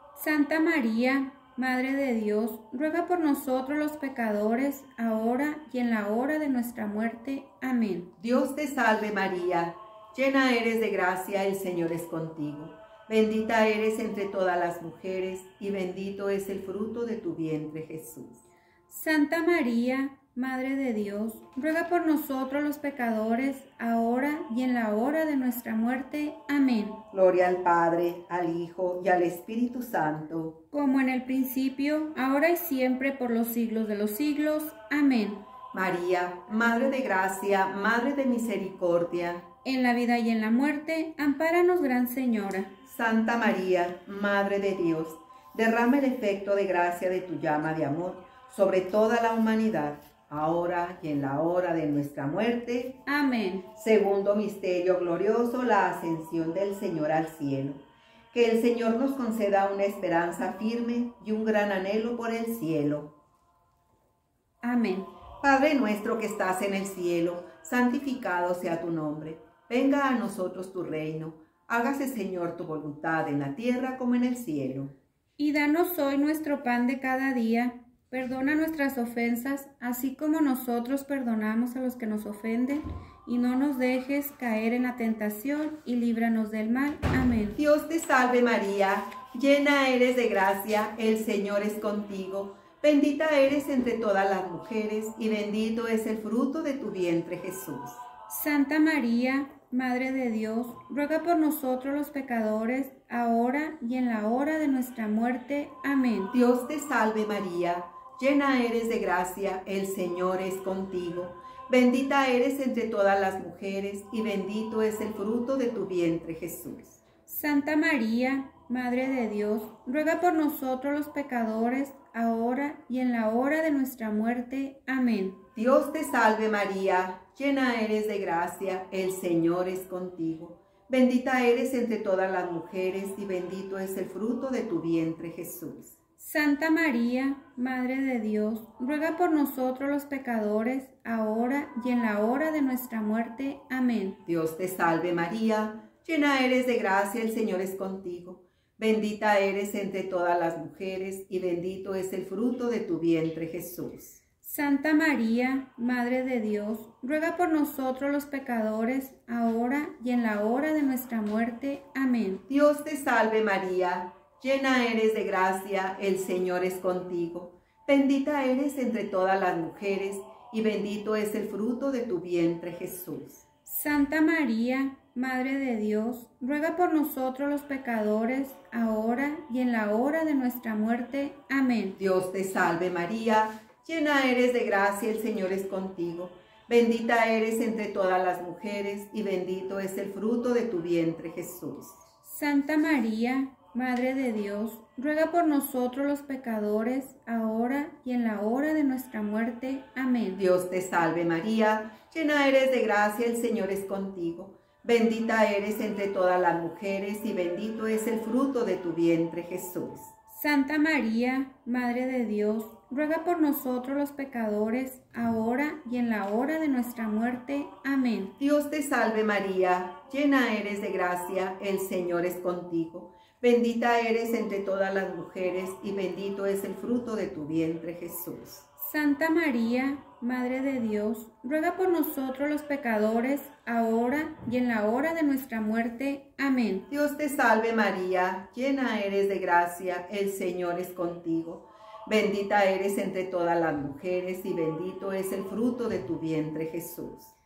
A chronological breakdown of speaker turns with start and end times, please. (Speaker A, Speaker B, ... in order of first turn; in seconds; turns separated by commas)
Speaker A: 0.1-8.1, Speaker B: 8.2-18.4, Speaker A: 18.9-27.0, Speaker B: 27.1-30.6, Speaker A: 30.7-35.4, Speaker B: 35.7-39.5, Speaker A: 39.6-42.7, Speaker B: 42.9-53.0, Speaker A: 53.0-53.7, Speaker B: 53.8-63.1, Speaker A: 64.6-65.1, Speaker B: 65.4-74.9, Speaker A: 75.4-87.6, Speaker B: 87.5-98.0, Speaker A: 98.3-106.3, Speaker B: 106.3-117.0, Speaker A: 117.3-125.4, Speaker B: 125.5-136.0, Speaker A: 136.2-144.2, Speaker B: 144.2-154.2, Speaker A: 154.4-162.4, Speaker B: 162.5-173.5, Speaker A: 173.7-182.0, Speaker B: 182.0-192.0, Speaker A: 192.2-200.4, Speaker B: 200.4-210.1, Speaker A: 210.3-218.3, Speaker B: 218.4-228.7, Speaker A: 228.8-236.9, Speaker B: 236.9-247.3